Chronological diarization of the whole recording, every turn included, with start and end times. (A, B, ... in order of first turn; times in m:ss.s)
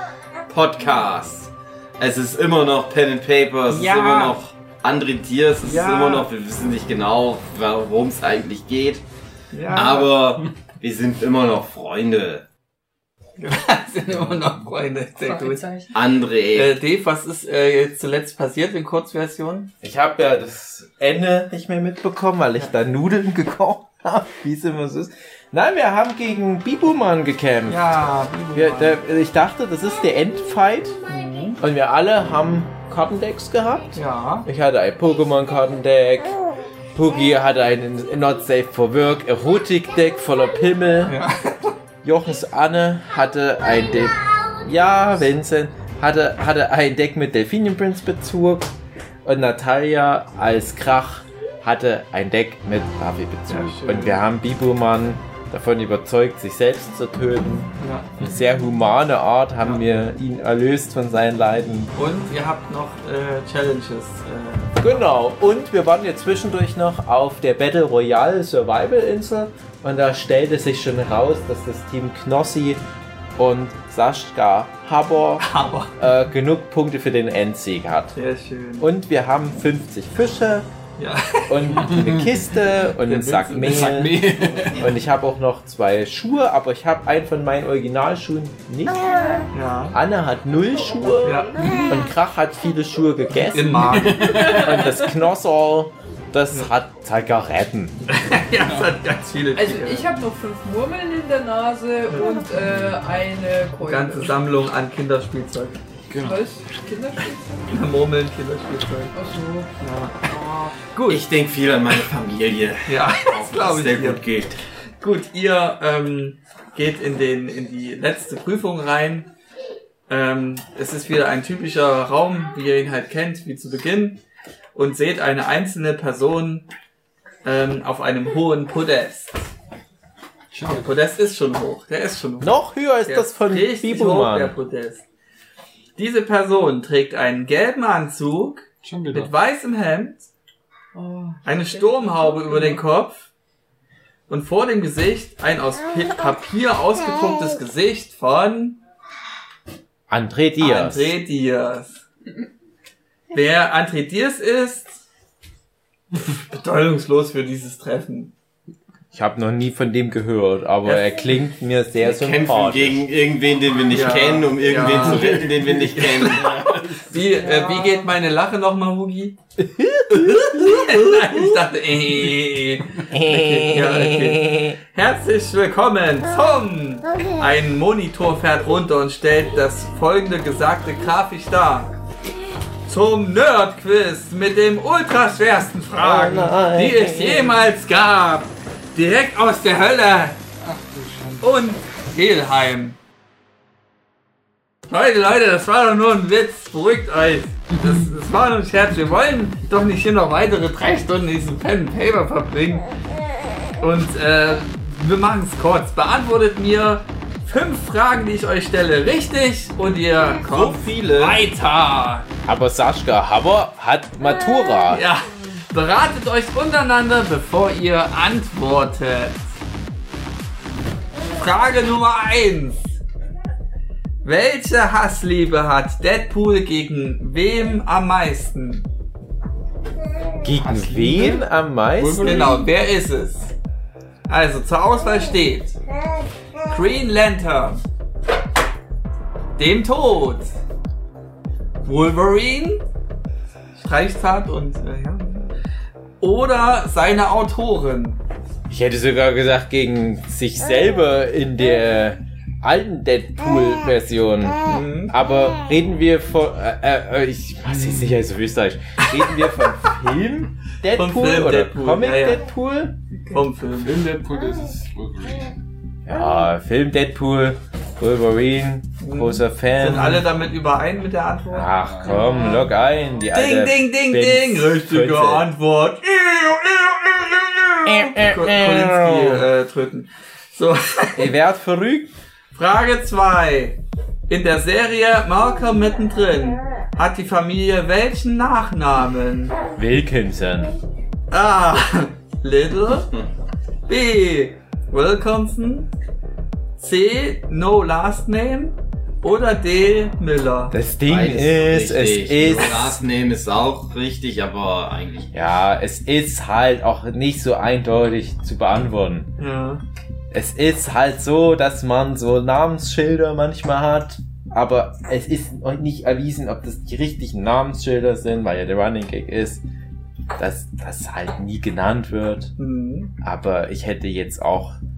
0:00.5-0:09.0 A
0:03.7-0:04.4 B
0:05.6-0:06.3 B
0:09.5-0:10.2 B
0:09.7-0:12.4 A
0:13.4-0:15.7 B
0:15.2-0:15.9 C
0:15.9-0:16.8 A
0:16.5-0:19.7 B
0:19.8-0:28.0 D
0:27.7-0:29.0 B
0:28.5-0:31.0 D
0:31.1-0:31.6 B
0:31.6-0:36.4 D
0:34.0-0:34.5 B
0:37.0-0:41.2 D
0:41.0-0:41.7 B
0:42.0-0:48.7 D
0:49.2-1:01.9 D
0:53.5-0:54.2 B
0:57.8-0:58.1 B
1:02.0-1:05.0 B
1:04.8-1:12.8 D
1:13.4-1:18.2 D
1:15.4-1:15.9 B
1:18.2-1:18.9 B
1:18.8-1:20.7 D
1:21.0-1:21.9 B
1:21.5-1:38.0 D
1:21.8-1:22.4 E
1:23.0-1:24.9 B
1:23.6-1:24.7 E
1:29.5-1:30.0 B
1:31.0-1:32.0 C
1:31.2-1:31.6 B
1:33.5-1:34.6 B
1:33.9-1:34.7 E
1:34.4-1:34.9 C
1:38.1-1:40.1 B
1:38.6-1:39.0 E
1:39.6-1:44.4 C
1:42.1-1:42.4 B
1:42.6-1:42.9 E
1:43.8-1:45.8 B
1:46.1-1:46.5 E
1:46.2-1:47.6 C
1:47.7-1:49.2 B
1:49.1-1:49.7 C
1:49.8-1:51.2 B
1:50.3-1:50.7 C
1:51.1-1:54.6 A
1:52.9-1:54.2 B
1:55.0-1:59.3 B
2:00.1-2:04.2 B
2:04.7-2:06.7 B
2:07.4-2:09.4 B
2:10.5-2:10.9 E
2:10.7-2:15.0 B
2:12.4-2:14.6 D
2:16.0-2:20.3 B
2:18.8-2:19.3 E
2:21.0-2:22.8 C
2:21.4-2:23.3 B
2:24.3-2:28.8 B
2:30.1-2:31.1 D
2:30.6-2:32.0 B
2:33.3-2:35.0 B
2:36.2-2:38.3 B
2:39.1-2:43.0 D
2:40.8-2:41.1 B
2:42.0-2:46.6 A
2:43.9-2:49.4 B
2:44.8-2:47.2 E
2:47.3-2:48.1 C
2:49.6-2:51.6 D
2:50.1-3:02.0 B
2:53.1-2:54.8 D
3:02.9-3:10.4 B
3:06.0-3:07.6 D
3:10.6-3:11.5 E
3:11.4-3:13.0 B
3:14.9-3:22.9 B
3:23.8-3:32.3 B
3:30.4-3:31.4 A
3:32.4-3:35.0 D
3:34.9-3:39.5 B
3:41.4-3:43.0 B
3:44.2-3:48.9 B
3:50.4-3:52.5 D
3:50.6-3:52.7 E
3:52.2-3:53.5 B
3:54.3-3:55.8 B
3:56.7-3:57.8 B
3:59.6-4:00.6 B
4:01.8-4:02.8 B
4:03.8-4:05.5 B
4:06.2-4:08.2 B
4:08.7-4:23.0 D
4:14.7-4:15.1 B
4:20.9-4:22.4 B
4:23.3-4:24.0 B
4:23.8-4:25.6 E
4:26.1-4:30.3 D
4:29.0-4:32.5 B
4:31.5-4:35.5 D
4:31.8-4:32.2 E
4:32.1-4:32.7 C
4:33.3-4:41.3 B
4:37.8-4:39.5 D
4:41.2-4:42.1 D
4:42.5-4:49.6 B
4:49.8-4:50.8 D
4:51.3-4:53.1 B
4:53.9-4:55.9 B
4:56.8-5:00.7 B
5:00.7-5:03.0 D
5:01.1-5:05.3 A
5:05.3-5:09.3 D
5:09.4-5:09.8 B
5:10.3-5:19.6 D
5:20.4-5:22.5 D
5:22.6-5:23.1 B
5:23.2-5:24.8 D